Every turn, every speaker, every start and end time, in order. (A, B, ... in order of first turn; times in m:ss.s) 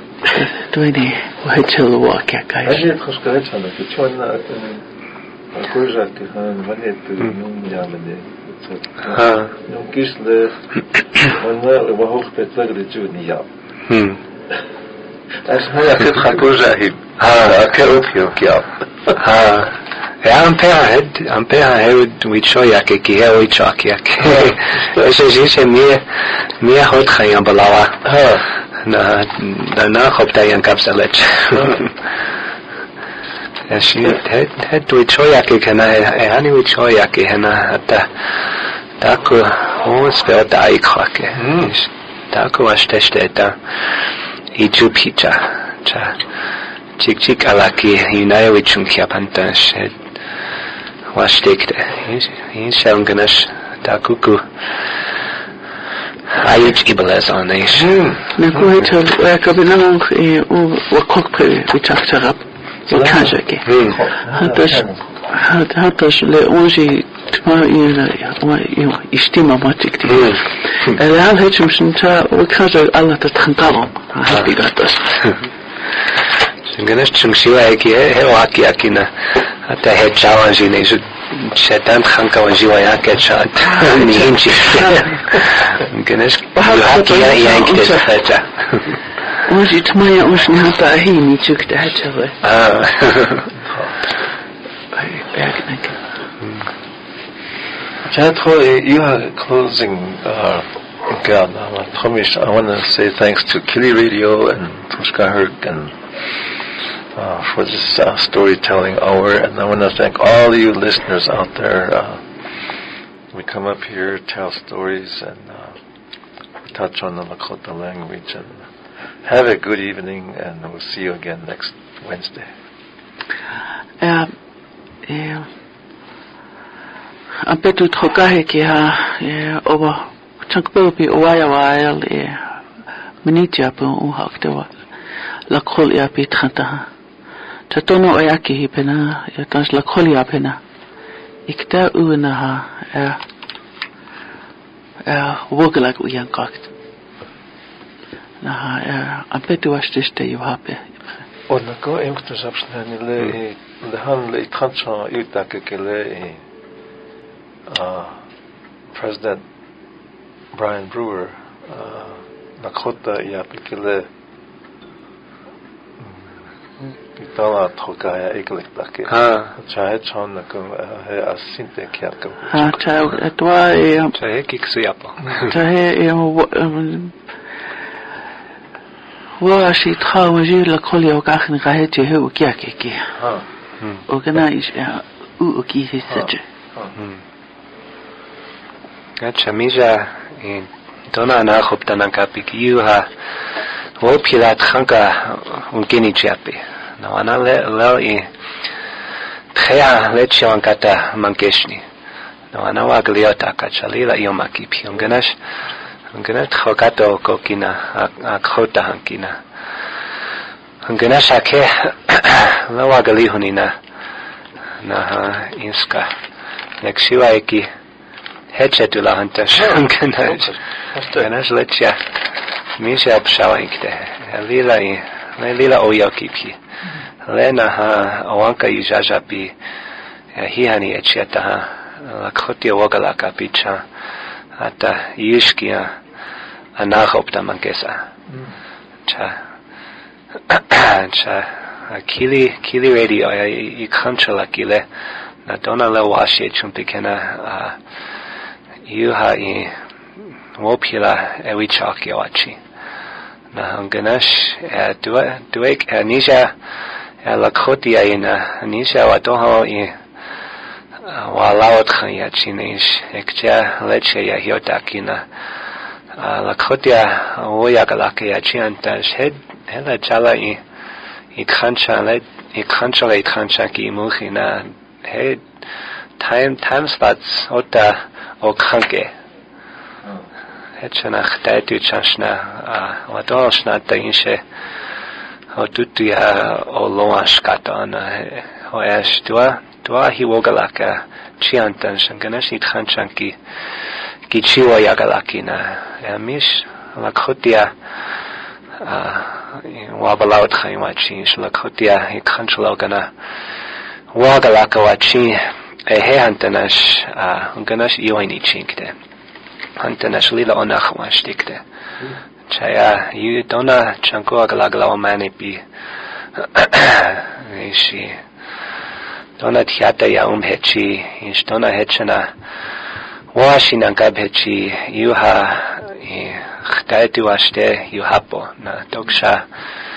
0:00.3-0:02.8 A
0:02.6-0:04.8 B
0:05.5-0:13.5 B
0:09.2-0:09.5 C
0:13.9-0:14.2 C
0:15.4-0:19.2 B
0:17.2-0:17.6 C
0:19.2-0:28.0 C
0:24.2-0:24.8 B
0:28.0-0:28.4 B
0:28.8-0:31.9 C
0:33.7-0:38.1 C
0:39.0-0:43.6 C
0:41.4-0:41.7 B
0:44.5-0:46.2 C
0:47.0-0:50.0 C
0:51.1-0:54.5 C
0:56.3-0:58.0 C
0:57.7-0:58.8 B
0:58.4-1:03.7 A
1:02.9-1:05.2 B
1:03.6-1:04.0 C
1:04.3-1:15.2 A
1:10.1-1:10.4 C
1:16.6-1:29.0 C
1:23.6-1:25.2 A
1:26.5-1:28.1 A
1:29.4-1:32.4 A
1:32.4-1:33.5 C
1:33.5-1:34.0 B
1:34.9-1:36.0 A
1:38.0-1:46.0 B
1:47.1-1:52.2 B
1:53.3-1:55.8 B
1:56.7-1:58.6 B
1:59.2-2:02.5 B
2:04.0-2:04.3 A
2:05.0-2:05.5 A
2:07.4-2:12.6 A
2:13.2-2:14.7 A
2:15.5-2:16.9 A
2:17.7-2:20.6 A
2:21.5-2:23.2 A
2:25.0-2:26.7 A
2:28.4-2:31.2 A
2:31.5-2:36.4 B
2:37.7-2:38.2 B
2:38.9-2:39.4 B
2:40.5-2:44.1 B
2:46.0-2:46.2 B
2:47.0-2:53.0 B
2:49.1-2:49.5 C
2:52.5-2:54.2 A
2:54.1-2:55.6 C
2:55.4-2:57.2 A
2:59.4-3:03.1 A
3:03.2-3:03.4 B
3:04.1-3:06.4 A
3:06.1-3:06.9 B
3:09.2-3:13.1 C
3:14.0-3:18.3 C
3:19.5-3:21.8 C
3:22.5-3:25.3 C
3:26.1-3:29.4 C
3:30.8-3:33.7 C
3:34.8-3:36.1 C
3:36.8-3:37.7 C
3:38.5-3:40.5 C
3:39.5-3:41.3 B
3:41.1-3:42.1 C
3:42.8-3:46.6 C
3:47.2-3:49.5 C
3:50.3-3:53.8 C
3:54.6-3:56.0 C
3:56.8-3:58.0 C
3:59.1-3:59.4 C
4:00.5-4:04.8 C
4:05.4-4:07.8 C
4:08.8-4:09.7 C
4:10.6-4:12.6 C
4:13.5-4:16.5 C
4:17.2-4:20.0 C
4:21.0-4:25.3 C
4:26.1-4:30.6 C
4:31.3-4:35.5 C
4:36.2-4:39.1 C
4:40.8-4:44.4 C
4:45.5-4:53.4 C
4:54.3-4:57.7 C
4:58.8-5:03.1 C
5:04.1-5:08.9 C
5:09.8-5:11.6 C
5:12.5-5:15.6 C
5:16.4-5:18.2 C
5:19.4-5:22.3 C
5:23.3-5:29.4 C